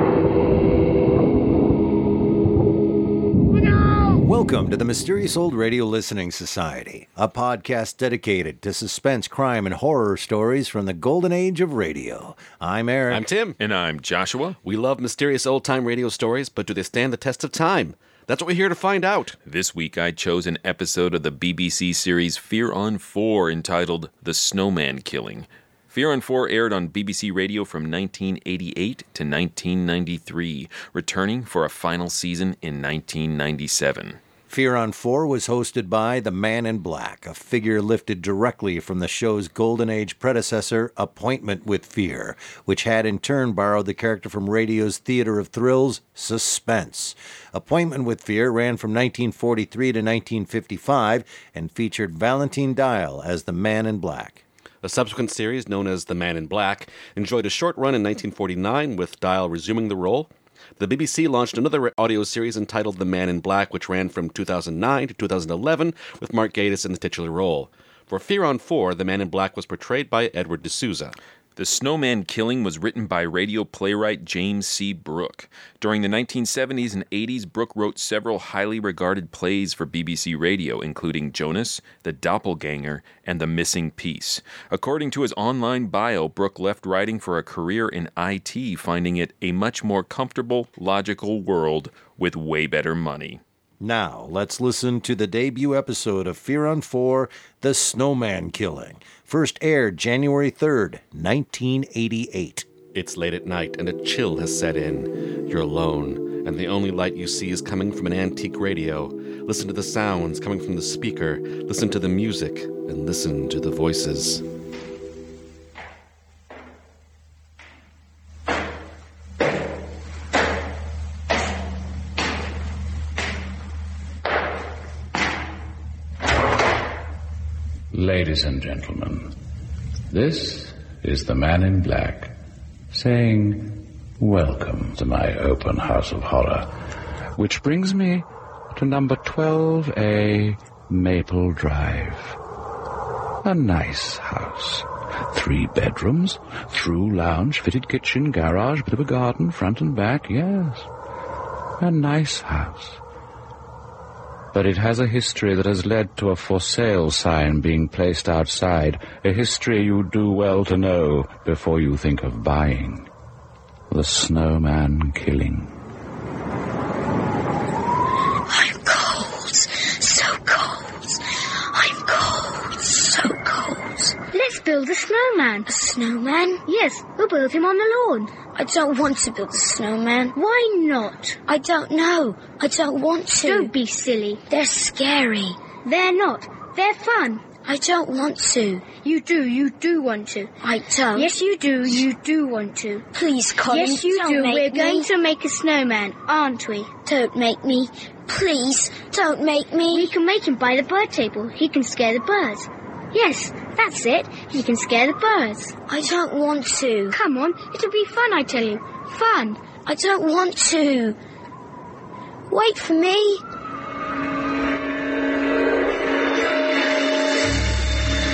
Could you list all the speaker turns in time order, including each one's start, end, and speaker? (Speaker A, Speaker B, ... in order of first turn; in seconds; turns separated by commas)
Speaker A: 4.2-13.3, Speaker B: 13.1-13.6, Speaker C: 13.6-14.6, Speaker B: 14.6-19.4, Speaker C: 19.4-34.2, Speaker A: 34.5-54.4, Speaker B: 54.8-71.2, Speaker C: 71.6-93.4, Speaker A: 93.8-102.7, Speaker B: 102.9-114.4, Speaker D: 127.9-129.3, Speaker D: 130.1-132.3, Speaker D: 132.9-136.7, Speaker D: 137.3-142.4, Speaker D: 143.4-150.9, Speaker D: 151.8-153.0, Speaker D: 154.5-163.1, Speaker D: 163.9-165.7, Speaker E: 168.4-174.2, Speaker F: 174.3-175.7, Speaker E: 175.7-176.6, Speaker F: 176.7-178.3, Speaker E: 178.5-180.3, Speaker F: 180.3-181.4, Speaker E: 181.5-183.7, Speaker F: 183.4-184.4, Speaker E: 184.5-185.6, Speaker F: 185.8-187.4, Speaker E: 187.6-188.9, Speaker F: 189.0-190.5, Speaker E: 190.6-191.3, Speaker F: 191.1-193.1, Speaker E: 193.1-195.1, Speaker F: 193.7-196.9, Speaker E: 197.0-200.1, Speaker F: 199.9-205.8, Speaker E: 205.9-207.2, Speaker F: 207.1-209.7, Speaker E: 209.8-211.2, Speaker E: 212.5-213.4